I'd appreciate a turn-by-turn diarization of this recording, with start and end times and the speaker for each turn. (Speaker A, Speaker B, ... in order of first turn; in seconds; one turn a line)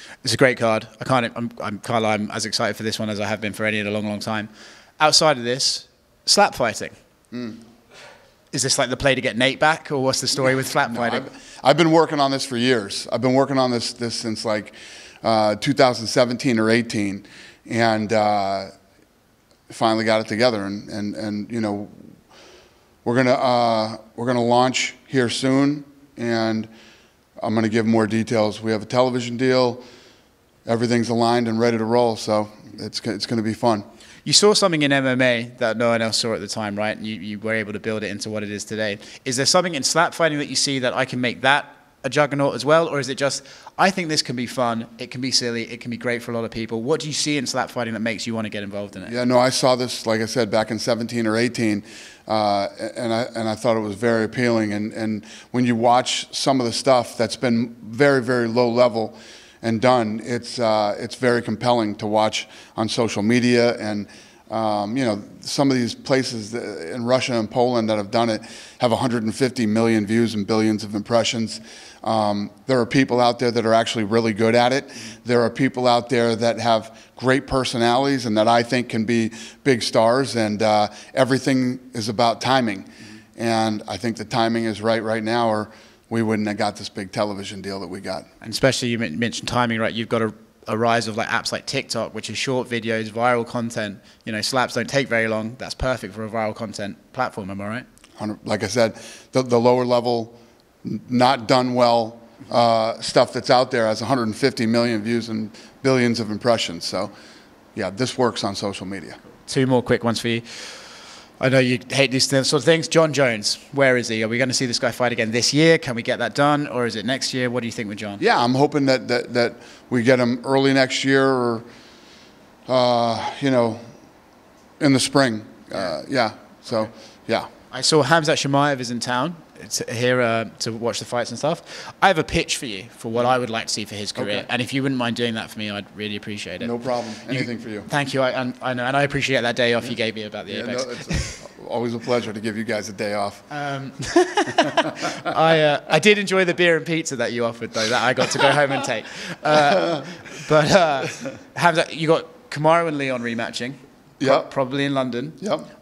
Speaker A: 0.2-7.0
Speaker B: 7.3-7.6
Speaker A: 8.5-11.3
Speaker B: 10.9-18.7
Speaker B: 19.7-21.9
Speaker B: 23.1-26.7
Speaker B: 27.4-29.8
Speaker B: 30.7-33.9
Speaker A: 34.2-49.1
Speaker B: 49.1-88.3
Speaker A: 88.4-97.8
Speaker B: 98.2-107.1
Speaker B: 107.8-109.2
Speaker A: 109.5-110.8
Speaker A: 111.4-118.2
Speaker B: 118.2-121.7
Speaker B: 122.7-123.8
Speaker B: 124.8-127.5
Speaker A: 127.7-141.4
Speaker B: 134.2-134.5
Speaker B: 136.6-137.9
Speaker B: 140.5-143.5
Speaker A: 143.5-155.4
Speaker B: 149.5-150.1
Speaker B: 154.2-154.5
Speaker B: 155.4-155.7